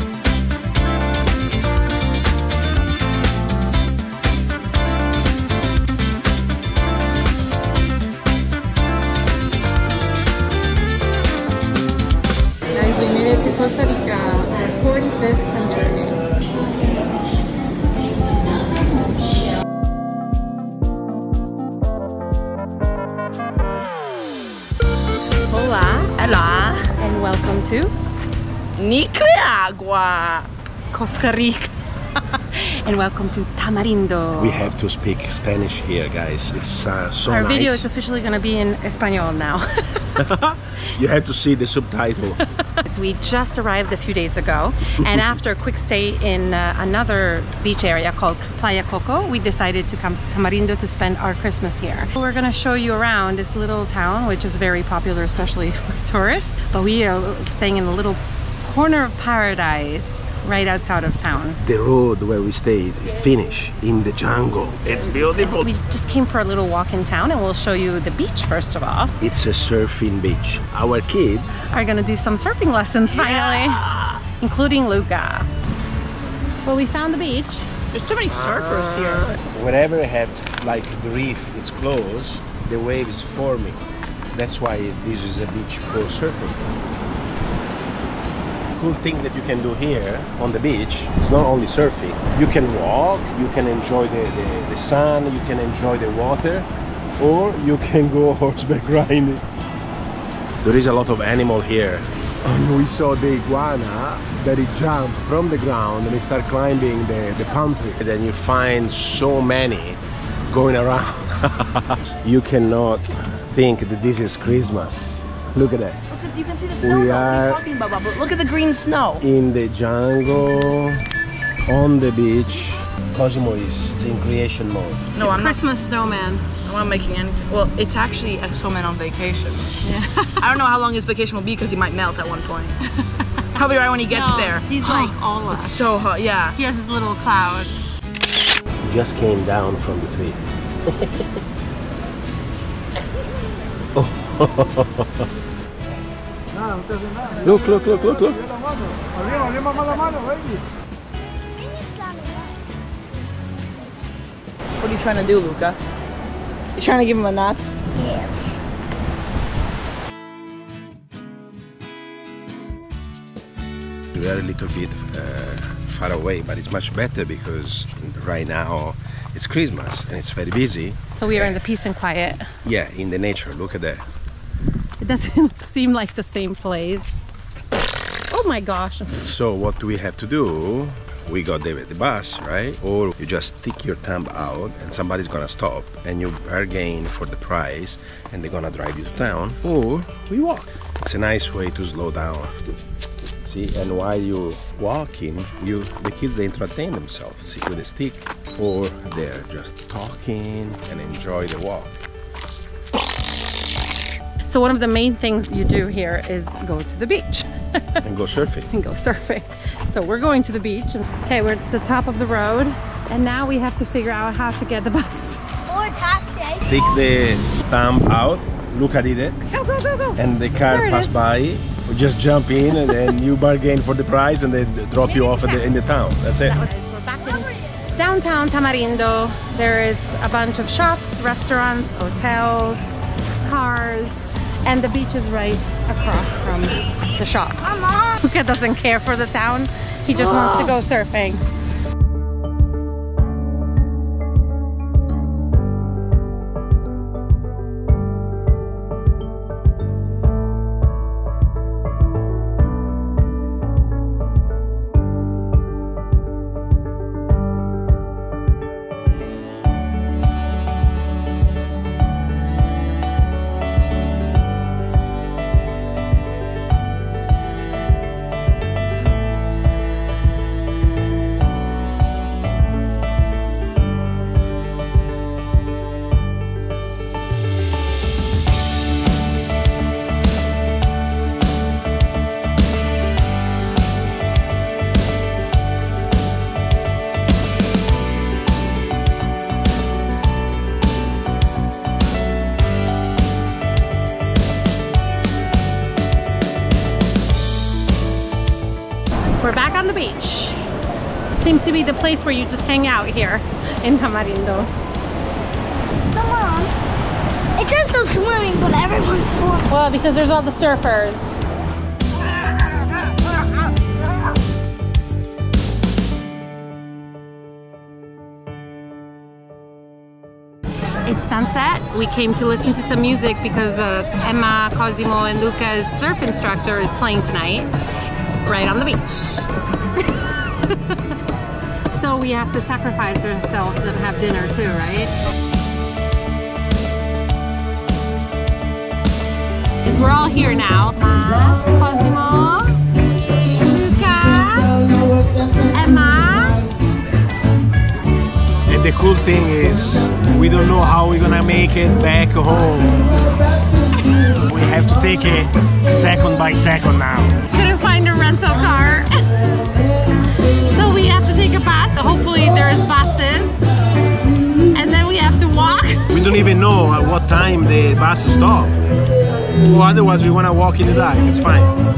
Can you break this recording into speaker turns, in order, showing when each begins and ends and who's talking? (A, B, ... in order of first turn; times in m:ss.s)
0:12.7-0:16.2 A
0:25.5-0:26.1 A
0:26.2-0:26.9 B
0:27.0-0:27.9 A
0:28.8-0:30.5 B
0:30.9-0:34.7 A
0:34.4-0:37.9 C
0:37.3-0:40.2 A
0:40.2-0:42.4 C
0:42.8-1:01.6 A
1:01.6-1:05.7 C
1:05.1-1:09.1 A
1:09.2-1:11.6 C
1:11.7-1:15.5 A
1:13.1-1:14.2 B
1:16.7-1:17.7 A
1:17.9-1:19.4 B
1:18.3-1:23.8 C
1:24.3-1:26.7 C
1:28.8-1:36.7 C
1:37.2-1:39.4 C
1:40.6-1:56.0 C
1:56.1-1:59.2 B
1:56.8-1:57.6 C
1:59.2-2:01.0 C
2:01.7-2:05.1 C
2:05.1-2:05.6 B
2:05.2-2:06.5 A
2:06.6-2:09.8 B
2:09.8-2:10.4 A
2:10.4-2:12.8 B
2:13.5-2:16.6 B
2:14.1-2:15.7 A
2:16.6-2:17.8 A
2:18.8-2:21.2 C
2:23.9-2:25.3 C
2:27.3-2:28.6 C
2:29.4-2:30.1 A
2:31.5-2:32.6 D
2:34.8-2:35.8 B
2:36.8-2:37.6 B
2:37.9-2:38.6 D
2:44.1-2:51.6 C
2:51.1-2:52.5 A
2:52.6-2:54.0 C
2:55.0-2:57.2 A
2:58.3-2:59.2 A
2:59.2-3:12.6 C
3:13.4-3:22.0 C
3:24.4-3:28.0 A
3:28.0-3:28.7 C
3:28.7-3:35.4 A
3:35.7-3:36.8 D
3:36.7-3:39.4 C
3:39.5-3:41.2 A
3:40.2-3:46.6 C
3:45.1-3:45.6 A
3:46.4-3:52.9 A
3:47.2-3:47.8 D
3:53.4-4:01.4 A
3:57.6-3:58.2 D
4:00.1-4:00.7 D
4:59.4-5:00.6 A
5:01.3-5:04.7 A
5:06.1-5:06.7 D
5:07.6-5:09.7 D
5:09.7-5:11.3 A
5:21.1-5:27.7 A
5:28.4-5:29.5 A
5:30.7-5:31.0 A
5:31.9-5:35.1 A
5:39.8-5:42.8 A
5:43.5-5:44.8 A
5:45.7-5:46.6 A
5:48.7-5:53.2 C
5:54.4-5:57.4 C
5:57.5-5:59.2 A
6:00.6-6:03.6 A
6:04.7-6:06.1 A
6:06.1-6:08.7 C
6:09.6-6:11.8 C